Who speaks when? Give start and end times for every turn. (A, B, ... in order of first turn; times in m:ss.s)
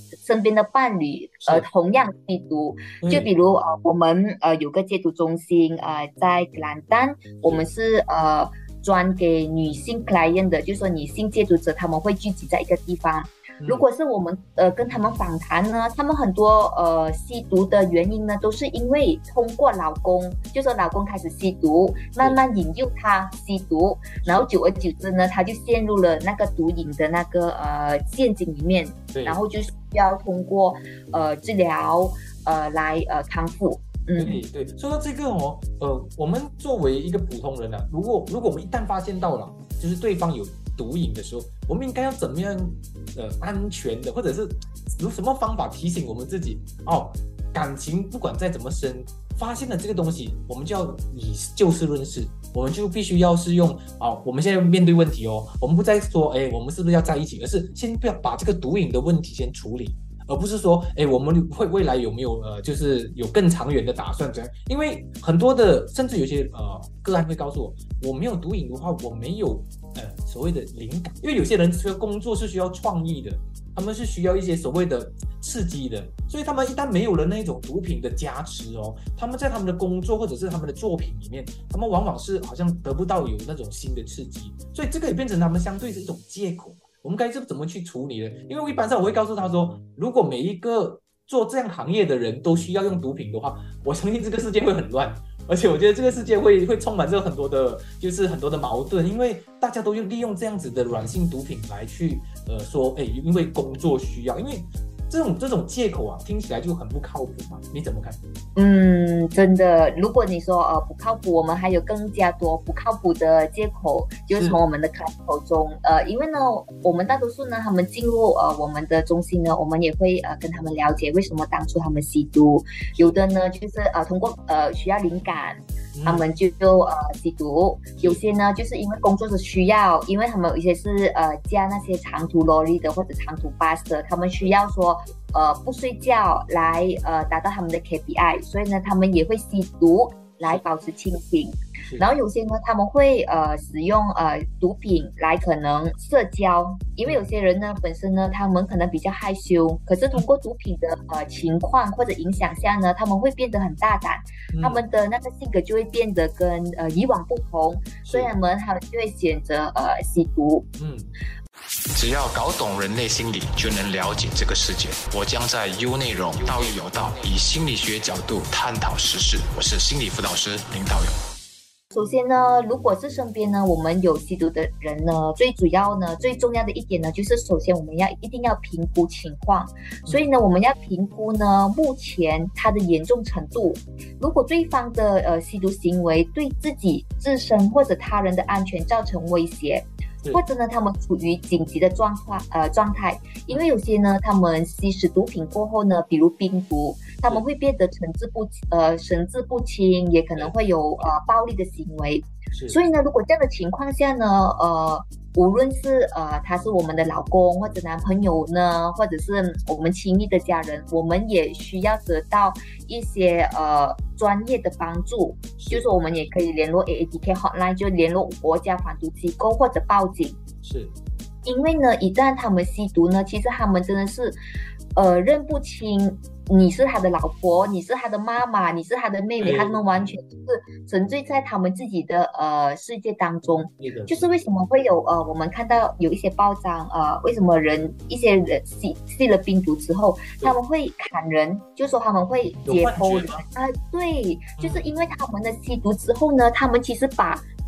0:00.2-0:34.4 A
0:03.0-0:03.3 B
0:13.6-0:13.8 B
0:29.1-0:29.4 B
0:34.2-1:48.2 B
1:48.6-2:40.7 A
1:54.3-1:54.6 B
2:05.9-2:06.2 B
2:34.5-2:34.8 B
2:38.0-2:38.3 B
2:40.8-2:41.1 B
2:42.0-2:46.7 C
2:43.2-2:44.5 B
2:45.1-2:48.1 B
2:47.3-2:51.1 C
2:51.9-3:40.4 A
3:22.5-3:22.8 B
3:35.6-3:35.9 B
3:40.6-3:40.9 B
3:41.4-3:44.4 A
3:44.9-4:07.4 A
3:49.4-3:50.1 B
3:53.8-3:54.3 B
4:02.6-4:03.4 B
4:04.6-4:04.9 B